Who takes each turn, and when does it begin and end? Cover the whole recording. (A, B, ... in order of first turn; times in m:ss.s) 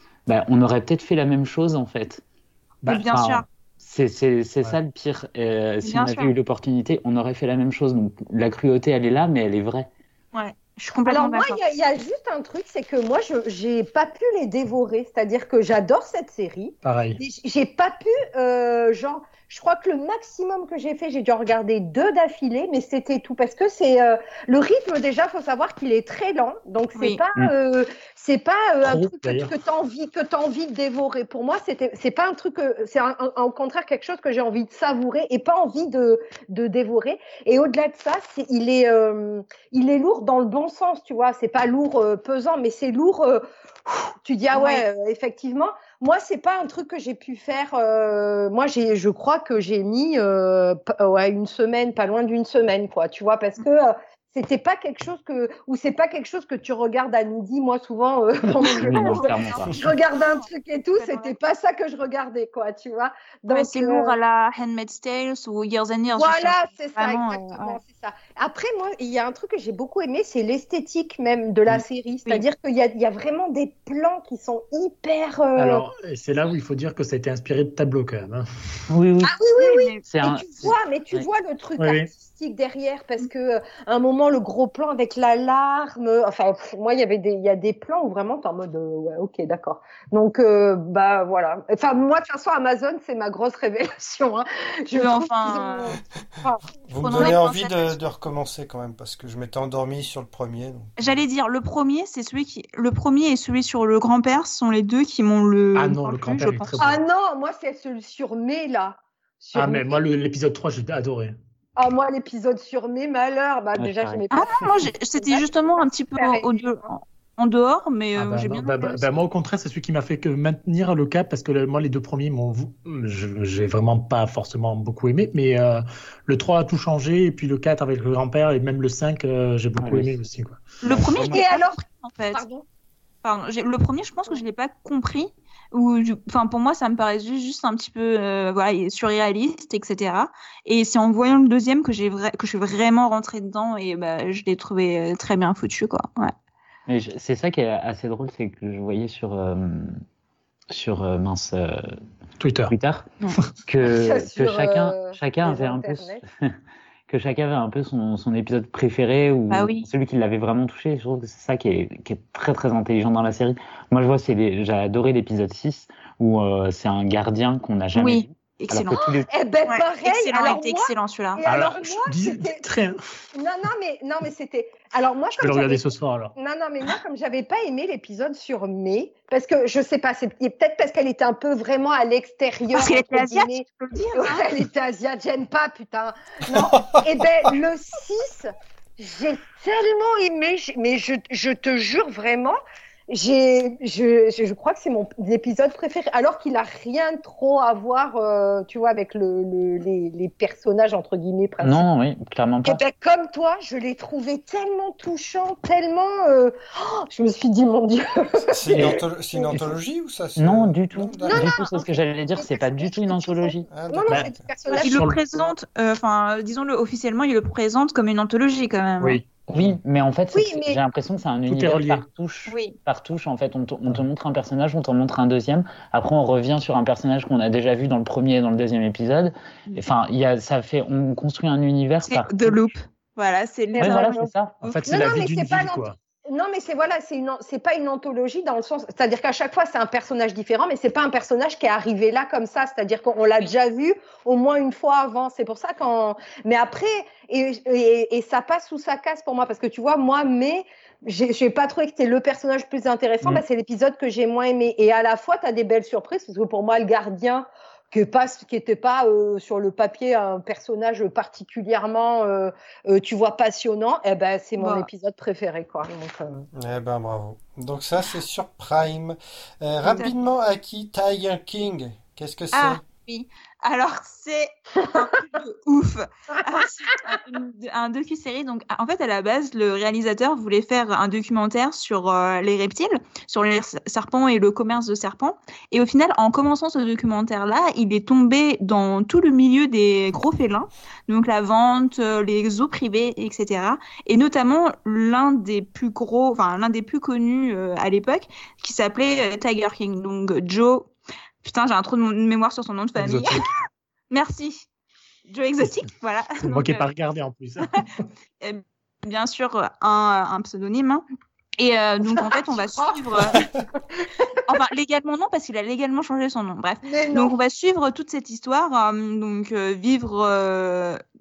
0:00.2-0:02.2 A
0:02.8-0:03.4 B
0:02.9-0:09.9 A
0:05.8-0:06.3 B
0:10.3-0:11.6 B
0:11.1-1:04.1 C
0:16.8-0:17.2 D
0:27.0-0:27.2 B
0:28.8-0:29.5 D
0:44.5-0:44.8 B
0:58.6-0:59.7 A
0:58.6-1:01.3 B
1:03.5-1:07.8 B
1:06.1-1:15.8 C
1:15.6-1:18.4 D
1:18.9-1:19.3 A
1:19.2-1:37.4 C
1:19.6-1:20.0 B
1:20.0-1:21.3 A
1:21.8-1:22.1 D
1:35.0-1:36.0 B
1:36.8-1:41.1 E
1:37.0-1:38.0 B
1:41.0-1:46.8 B
1:45.7-1:47.0 D
1:46.8-1:50.1 C
1:49.5-1:51.3 D
1:51.8-1:54.5 C
1:53.8-1:54.2 A
1:54.3-1:59.2 B
1:55.2-1:56.5 C
1:58.2-2:10.6 D
2:09.8-2:10.2 A
2:10.8-2:12.4 B
2:10.8-2:11.4 A
2:11.3-2:12.6 C
2:13.2-2:26.3 B
2:26.9-2:30.0 A
2:30.7-2:32.0 A
2:32.4-2:32.7 D
2:32.7-2:33.1 A
2:33.6-2:36.2 A
2:33.8-2:36.2 C
2:37.1-2:49.3 A
2:39.5-2:39.9 B
2:48.0-2:49.0 B
2:48.9-2:52.6 C
2:49.7-2:51.4 B
2:51.4-2:53.0 D
2:53.3-3:12.6 C
2:55.4-2:56.3 D
3:02.7-3:04.5 B
3:06.5-3:07.0 E
3:13.1-3:21.8 C
3:21.6-3:22.8 A
3:22.6-3:29.6 C
3:28.5-3:31.6 E
3:30.4-3:33.7 A
3:31.2-3:34.9 C
3:33.7-3:34.5 E
3:34.1-3:35.2 D
3:34.7-3:39.2 B
3:39.5-3:52.7 A
3:40.3-3:40.8 C
3:41.5-3:42.0 D
3:42.5-3:42.7 B
3:52.0-3:54.9 B
3:53.7-3:54.3 C
3:53.8-3:54.6 A
3:54.6-3:56.0 D
3:54.9-4:26.5 C
4:24.6-4:24.9 B
4:26.5-4:32.8 E
4:29.8-4:30.1 B
4:32.5-5:00.9 B
4:36.5-4:37.1 C
5:01.4-5:03.4 B
5:03.0-5:03.4 D
5:04.1-5:04.6 B
5:05.3-5:06.9 B
5:05.6-5:05.9 D
5:06.4-5:08.0 D
5:08.4-5:11.0 B
5:11.6-5:13.4 B
5:12.2-5:14.6 C
5:13.3-5:13.6 E
5:14.5-5:21.0 B
5:16.8-5:17.3 C